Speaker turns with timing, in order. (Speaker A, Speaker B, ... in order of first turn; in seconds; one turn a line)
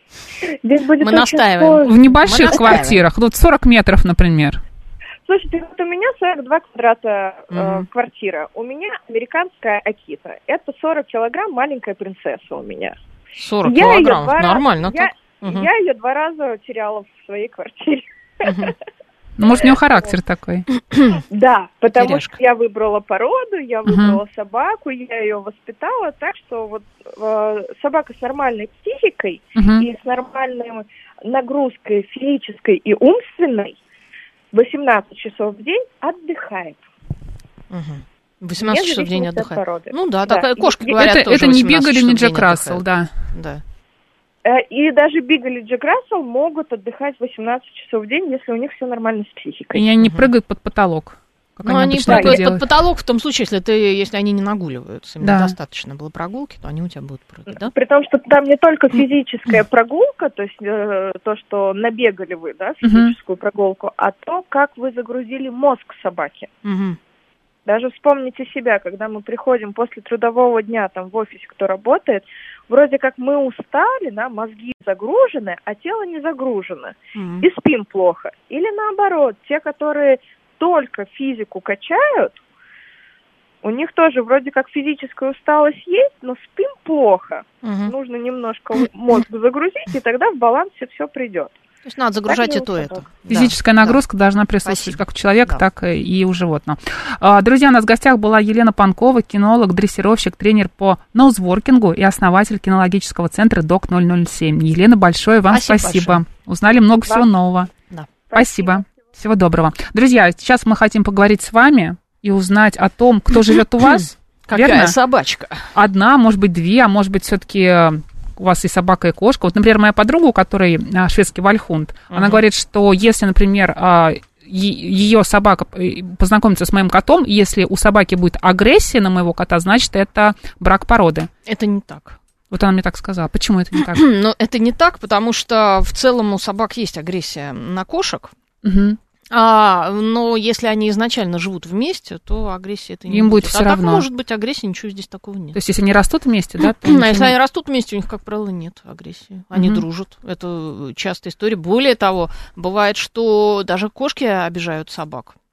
Speaker A: 0.6-2.8
Speaker B: 1.0-3.0
Speaker C: 1.8-4.6
Speaker A: 5.3-12.9
Speaker B: 7.5-7.8
Speaker B: 13.4-15.7
Speaker A: 13.6-18.7
Speaker B: 18.4-18.7
Speaker C: 19.4-20.7
Speaker A: 19.5-20.1
Speaker B: 20.7-21.2
Speaker A: 21.3-33.8
Speaker B: 21.9-22.4
Speaker C: 23.9-24.2
Speaker C: 29.6-29.9
Speaker A: 34.5-36.8
Speaker B: 37.7-43.6
Speaker A: 38.6-41.0
Speaker C: 41.0-43.1
Speaker A: 44.4-49.8
Speaker C: 49.7-52.6
Speaker B: 50.0-50.3
Speaker B: 51.6-57.7
Speaker A: 52.0-52.4
Speaker C: 55.2-55.5
Speaker A: 57.5-66.5
Speaker C: 62.8-63.1
Speaker B: 66.6-67.0
Speaker A: 67.7-82.4
Speaker B: 77.2-77.4
Speaker A: 83.6-91.5
Speaker B: 87.6-87.9
Speaker B: 91.8-94.0
Speaker A: 92.2-93.0
Speaker C: 93.3-107.7
Speaker B: 94.6-95.6
Speaker B: 105.5-106.2
Speaker A: 108.3-108.8
Speaker C: 108.3-114.9
Speaker B: 114.5-115.7
Speaker C: 115.7-131.3
Speaker B: 122.1-122.4
Speaker B: 131.4-132.2
Speaker C: 132.5-134.0
Speaker B: 133.8-138.3
Speaker C: 138.6-139.0
Speaker B: 139.3-145.6
Speaker C: 143.1-144.1
Speaker C: 145.5-147.3
Speaker B: 146.7-155.3
Speaker C: 149.5-149.8